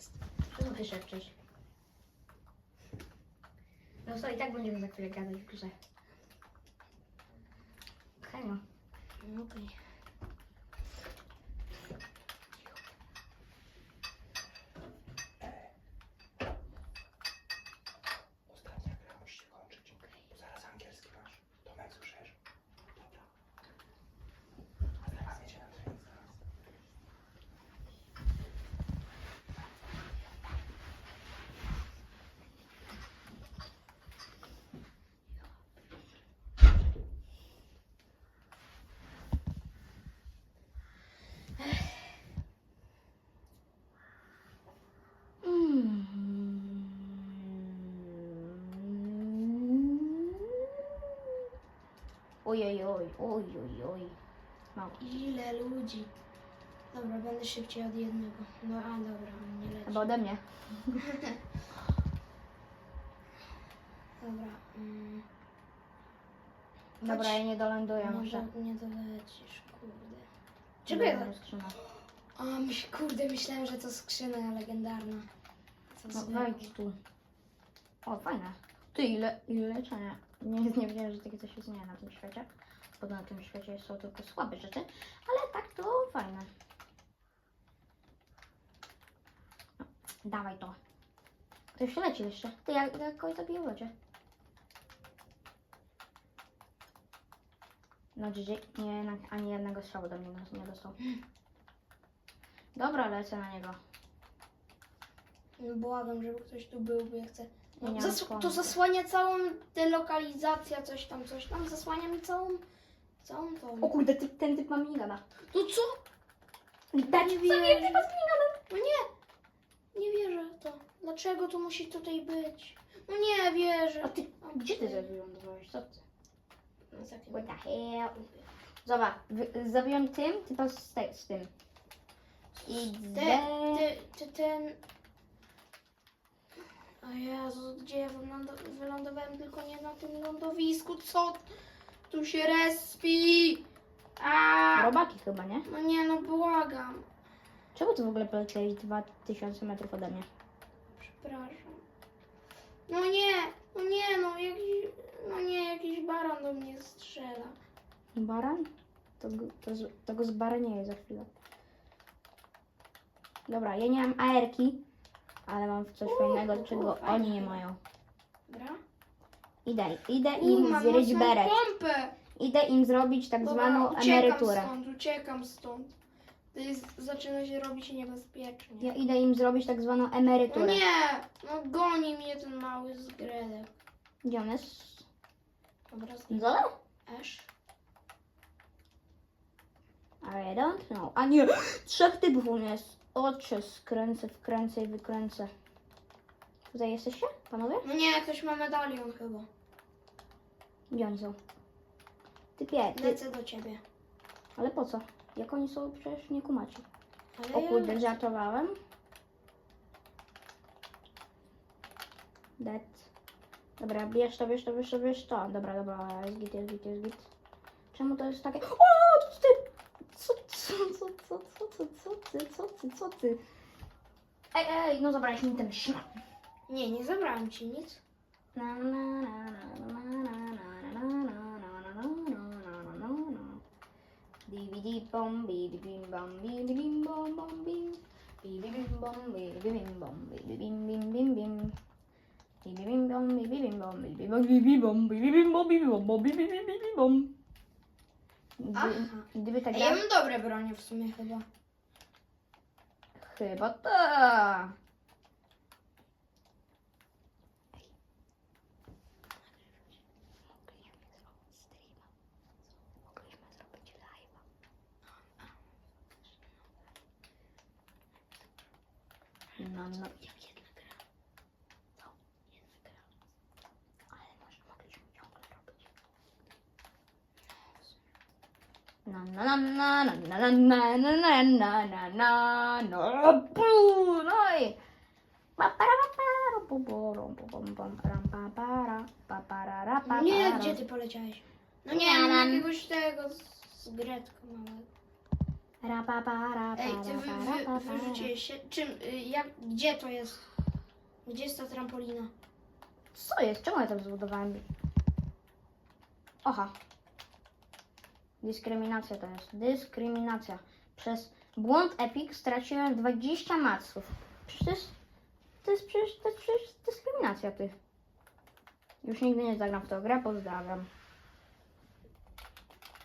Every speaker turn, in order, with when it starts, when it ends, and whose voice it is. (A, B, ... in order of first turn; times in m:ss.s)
0:00.5-0:01.3 A
0:04.0-0:05.7 A
0:08.2-0:08.6 A
0:09.2-0:09.7 B
0:18.5-0:22.4 C
0:25.1-0:26.0 C
0:45.4-0:51.5 A
0:52.4-0:54.2 A
0:55.0-0:56.1 B
0:56.9-1:00.1 B
0:59.9-1:01.0 A
1:01.0-1:01.4 B
1:04.2-1:05.2 B
1:07.0-1:07.4 B
1:07.0-1:08.5 A
1:08.0-1:10.3 B
1:10.8-1:11.3 B
1:10.9-1:11.8 A
1:12.4-1:15.3 B
1:16.0-1:16.7 B
1:16.1-1:17.0 A
1:18.0-1:26.5 A
1:29.8-1:30.8 A
1:31.7-1:33.9 A
1:38.2-1:41.0 A
1:42.8-1:43.8 A
1:45.6-1:52.6 B
1:47.8-1:48.7 A
1:53.2-1:53.9 B
1:53.8-1:55.2 A
1:55.5-1:56.0 B
1:56.9-1:58.6 A
1:57.0-1:58.1 B
1:58.7-1:59.1 B
1:59.9-2:05.1 B
2:04.0-2:06.0 A
2:06.9-2:07.5 B
2:07.3-2:08.3 A
2:08.8-2:11.5 A
2:12.6-2:14.8 B
2:12.7-2:13.9 A
2:17.0-2:21.4 B
2:22.1-2:23.6 B
2:24.2-2:24.9 B
2:24.8-2:25.7 A
2:25.6-2:27.1 B
2:27.8-2:30.3 A
2:31.0-2:31.8 B
2:32.9-2:37.6 B
2:38.2-2:38.7 A
2:39.2-2:41.3 A
2:43.5-2:44.8 A
2:45.5-2:47.8 A
2:46.0-2:47.6 B
2:48.5-2:48.8 B
2:49.6-2:51.6 A
2:50.4-2:52.2 B
2:52.3-2:54.7 A
2:53.4-2:55.9 B
2:56.5-2:58.9 B
2:58.8-3:00.8 A
3:00.5-3:03.7 B
3:04.2-3:05.1 A
3:05.9-3:07.5 B
3:06.3-3:06.7 A
3:10.2-3:15.5 A
3:16.7-3:17.9 A
3:17.8-3:19.5 B
3:20.9-3:21.4 A
3:22.6-3:23.2 A
3:23.0-3:23.8 B
3:24.6-3:26.8 A
3:27.4-3:28.2 B
3:27.5-3:28.8 A
3:32.6-3:33.1 A
3:33.8-3:37.3 A
3:37.9-3:43.4 A
3:44.5-3:46.2 A
3:46.7-3:48.0 B
3:48.5-3:53.6 A
3:54.5-4:01.7 A
4:02.6-4:07.3 A
4:08.6-4:10.0 A
4:08.7-4:11.5 B
4:13.2-4:14.8 A
4:20.5-4:22.0 A
4:23.1-4:24.4 A
4:29.6-4:30.8 A
4:32.6-4:32.9 A
4:34.1-4:35.8 A
4:39.1-4:44.8 A
4:45.6-4:50.8 A
4:50.0-4:54.9 B
4:51.9-4:52.7 A
4:55.8-4:58.3 A
4:56.8-5:00.4 B
5:01.2-5:02.3 B
5:03.1-5:04.6 A
5:06.4-5:06.7 A
5:08.4-5:14.9 A
5:15.6-5:17.7 A
5:19.0-5:20.9 A